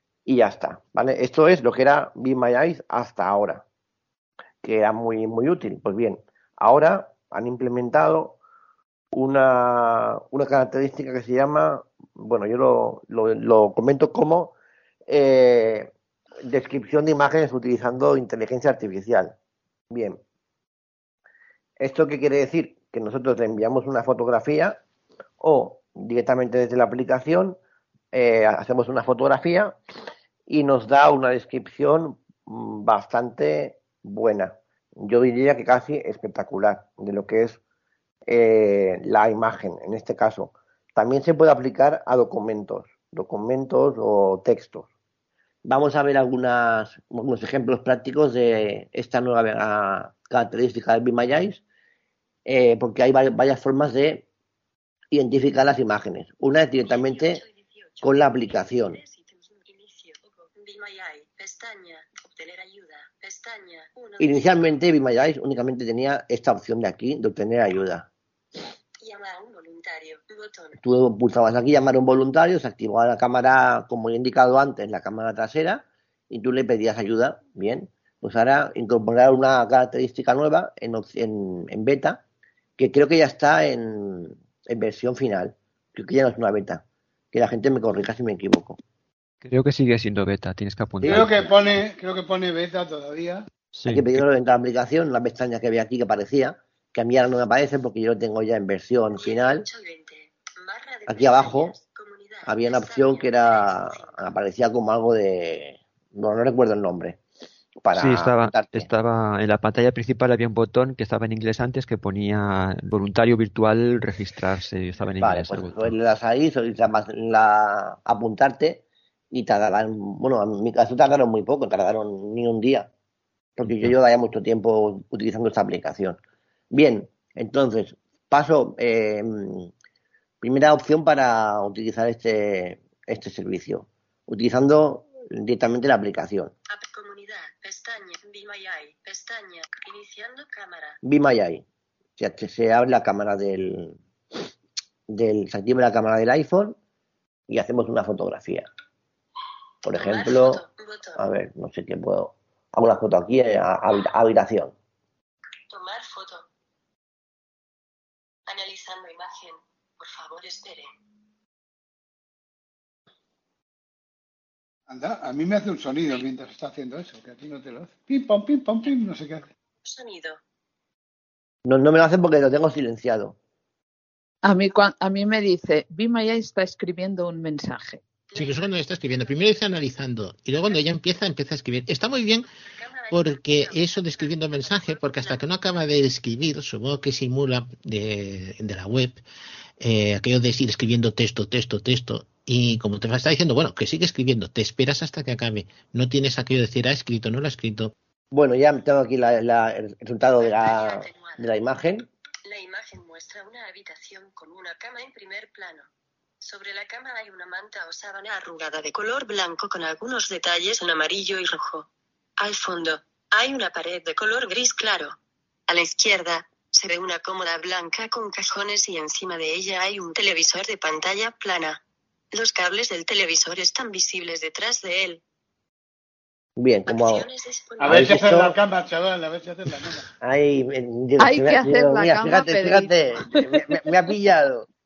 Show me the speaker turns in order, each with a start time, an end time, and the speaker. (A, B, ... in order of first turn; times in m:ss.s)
0:00.2-0:03.6 A
0:04.6-0:08.4 A
0:09.1-0:14.5 A
0:15.1-0:15.9 A
0:16.4-0:19.3 A
0:19.9-0:20.2 A
0:21.8-0:24.8 A
0:25.4-0:27.6 A
0:28.1-0:29.8 A
0:30.5-0:37.6 A
0:38.3-0:44.9 A
0:45.6-0:51.6 A
0:52.4-0:54.2 A
0:55.1-0:57.4 A
0:56.8-1:04.7 B
0:58.0-0:59.0 A
1:04.2-1:08.1 A
1:09.0-1:10.8 B
1:10.8-1:22.2 A
1:22.8-1:28.8 A
1:29.4-1:31.4 C
1:31.0-1:31.4 A
1:31.0-1:33.5 D
1:33.7-1:34.2 C
1:33.9-1:39.6 A
1:39.1-1:44.1 B
1:41.1-1:41.8 A
1:42.4-1:47.2 A
1:47.8-1:48.9 A
1:47.9-1:56.0 C
1:55.2-2:02.9 A
2:03.6-2:06.2 A
2:06.7-2:09.7 A
2:10.4-2:16.5 A
2:16.7-2:21.0 B
2:21.0-2:21.6 A
2:22.2-2:24.0 A
2:25.1-2:26.8 A
2:27.5-2:28.7 A
2:29.8-2:30.6 A
2:29.9-2:31.2 B
2:31.2-2:34.7 A
2:35.7-2:36.5 B
2:38.5-2:40.9 B
2:44.9-2:49.5 D
2:49.8-2:50.4 B
2:51.6-2:53.4 A
2:54.4-2:58.0 E
2:58.3-2:59.4 B
2:58.4-3:02.4 F
3:02.7-3:05.4 B
3:03.1-3:09.2 F
3:09.8-3:17.9 F
3:18.3-3:22.1 A
3:20.4-3:21.5 B
3:22.4-3:25.9 B
3:26.4-3:31.9 B
3:32.4-3:35.2 B
3:35.7-3:41.8 B
3:42.3-3:45.2 B
3:46.6-3:47.2 A
3:46.9-3:48.3 B
3:47.8-3:50.1 D
3:47.8-3:48.6 A
3:50.2-3:54.7 A
3:51.2-3:53.8 E